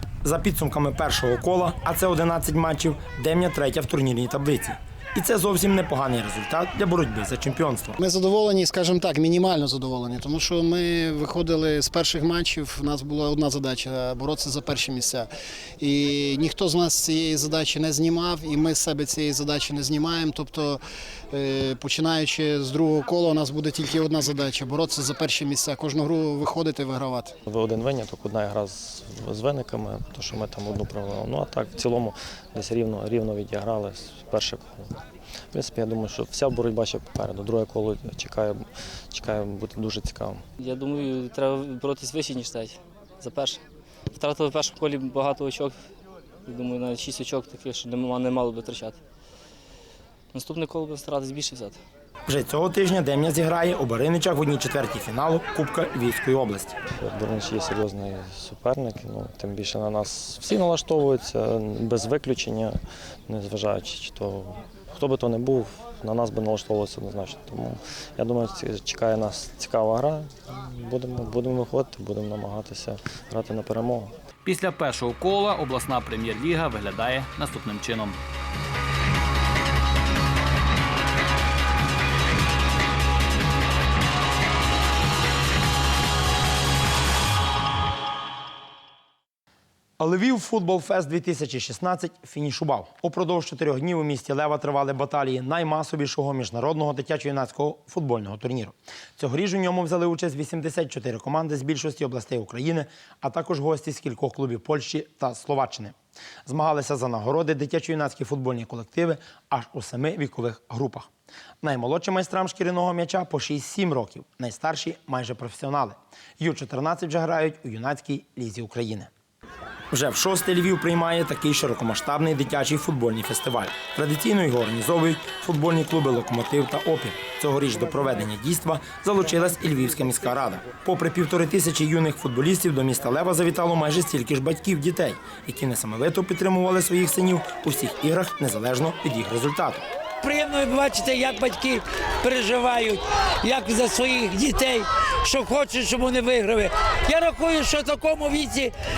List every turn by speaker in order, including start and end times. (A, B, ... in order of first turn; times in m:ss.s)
0:00.2-0:08.0 A
0:08.0-0:15.3 B
0:15.8-0:20.8 B
0:21.3-0:27.4 B
0:27.5-0:35.0 C
0:35.5-0:40.4 C
0:40.6-0:45.8 D
0:46.5-0:49.0 D
0:50.3-0:51.8 D
0:52.3-0:56.8 A
0:56.9-1:14.1 C
1:14.4-1:18.2 E
1:30.0-1:45.9 A
1:46.4-1:51.1 A
1:51.6-1:59.1 A
1:59.9-2:19.8 A
2:20.2-2:28.7 F